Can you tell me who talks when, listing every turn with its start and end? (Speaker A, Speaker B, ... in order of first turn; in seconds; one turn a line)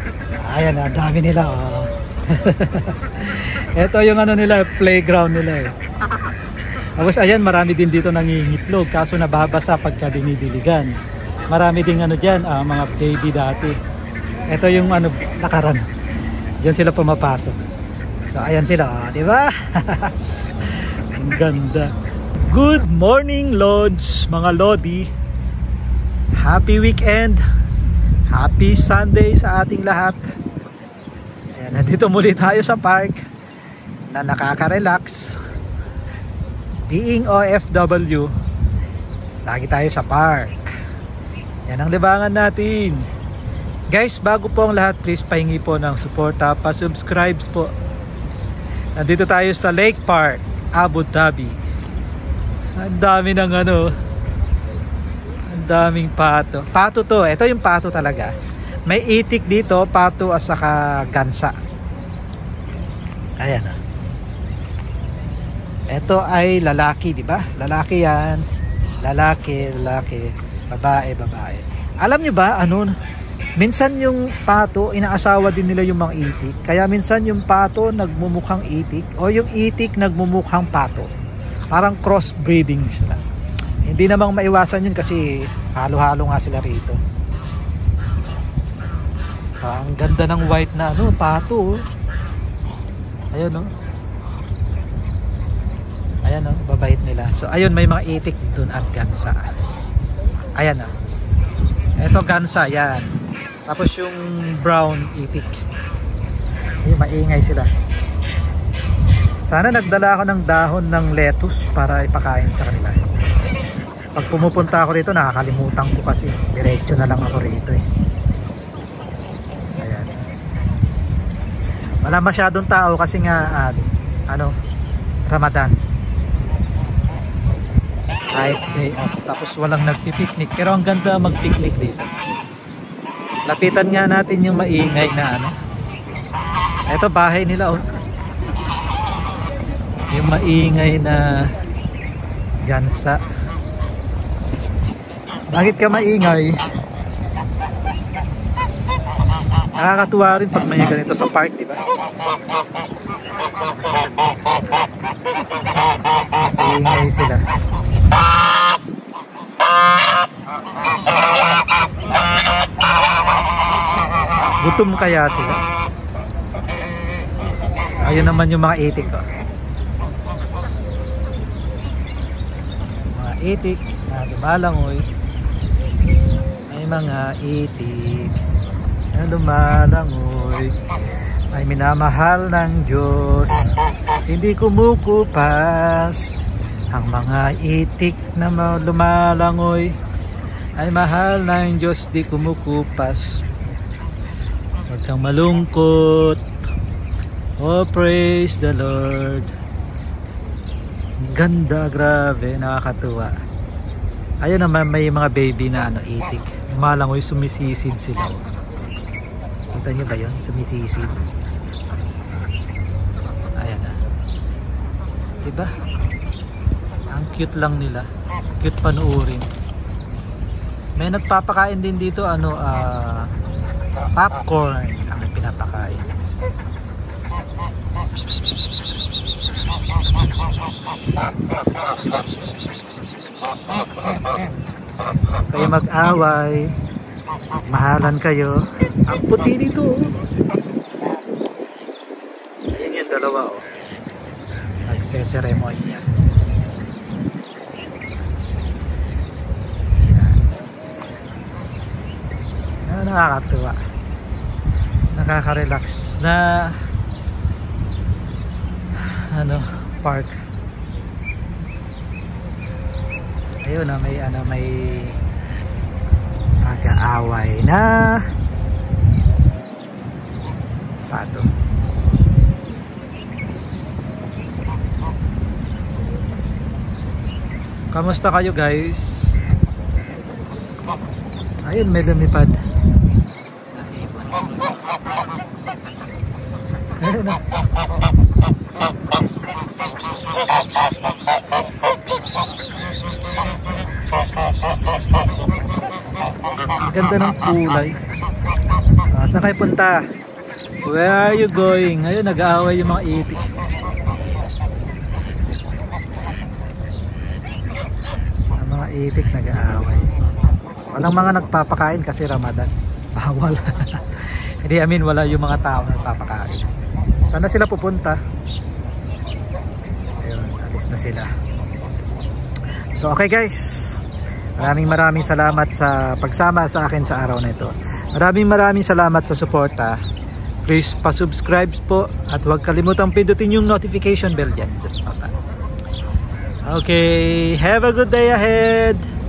Speaker A: 0.4-5.7
Speaker A: 7.0-11.0
Speaker A: 11.5-13.8
Speaker A: 14.5-15.9
Speaker A: 16.6-17.6
Speaker A: 18.3-20.2
Speaker A: 20.7-21.9
Speaker A: 22.5-25.1
Speaker A: 26.4-27.4
Speaker A: 28.3-30.2
Speaker A: 31.6-33.2
Speaker A: 34.1-35.4
Speaker A: 36.9-38.3
Speaker A: 39.5-40.7
Speaker A: 41.7-43.0
Speaker A: 43.9-47.7
Speaker A: 49.0-51.6
Speaker A: 52.8-53.9
Speaker A: 55.5-58.3
Speaker A: 58.9-61.5
Speaker A: 63.4-63.8
Speaker A: 65.9-68.4
Speaker A: 69.0-72.9
Speaker A: 73.6-81.1
Speaker A: 81.7-83.2
Speaker A: 83.8-87.0
Speaker A: 89.6-91.8
Speaker A: 93.3-93.7
Speaker A: 96.2-99.4
Speaker A: 100.6-100.9
Speaker A: 102.0-103.1
Speaker A: 103.7-105.6
Speaker A: 106.8-107.7
Speaker A: 109.4-113.0
Speaker A: 114.1-117.8
Speaker A: 119.8-120.1
Speaker A: 122.0-124.5
Speaker A: 125.3-125.8
Speaker A: 128.3-132.1
Speaker A: 133.5-135.6
Speaker A: 136.9-137.8
Speaker A: 140.1-141.5
Speaker A: 142.7-143.2
Speaker A: 145.5-146.6
Speaker A: 149.8-151.8
Speaker A: 156.4-157.4
Speaker A: 164.6-165.6
Speaker A: 168.0-169.2
Speaker A: 173.2-175.0
Speaker A: 176.7-178.3
Speaker A: 179.1-180.7
Speaker A: 181.5-183.8
Speaker A: 184.3-186.3
Speaker A: 186.9-189.9
Speaker A: 190.8-193.3
Speaker A: 194.9-196.4
Speaker A: 197.6-199.5
Speaker A: 201.2-203.3
Speaker A: 204.4-208.4
Speaker A: 209.7-211.2
Speaker A: 213.6-214.0
Speaker A: 215.4-215.7
Speaker A: 217.1-218.1
Speaker A: 218.6-219.5
Speaker A: 221.0-223.3
Speaker A: 224.2-226.0
Speaker A: 228.1-229.7
Speaker A: 235.5-236.7
Speaker A: 237.7-240.1
Speaker A: 242.7-243.6
Speaker A: 244.9-246.1
Speaker A: 250.0-250.4
Speaker A: 252.9-253.8
Speaker A: 255.1-256.8
Speaker A: 259.0-260.4
Speaker A: 263.6-265.2
Speaker A: 266.6-268.2
Speaker A: 271.1-271.5
Speaker A: 277.9-279.4
Speaker A: 281.6-282.6
Speaker A: 283.7-284.6
Speaker A: 287.0-287.4
Speaker A: 296.7-298.0
Speaker A: 299.1-300.0
Speaker A: 300.8-303.5
Speaker A: 308.6-310.1
Speaker A: 310.9-316.7
Speaker A: 317.3-318.2
Speaker A: 320.2-321.3
Speaker A: 322.9-324.0
Speaker A: 324.6-330.0
Speaker A: 330.6-335.3
Speaker A: 336.7-339.1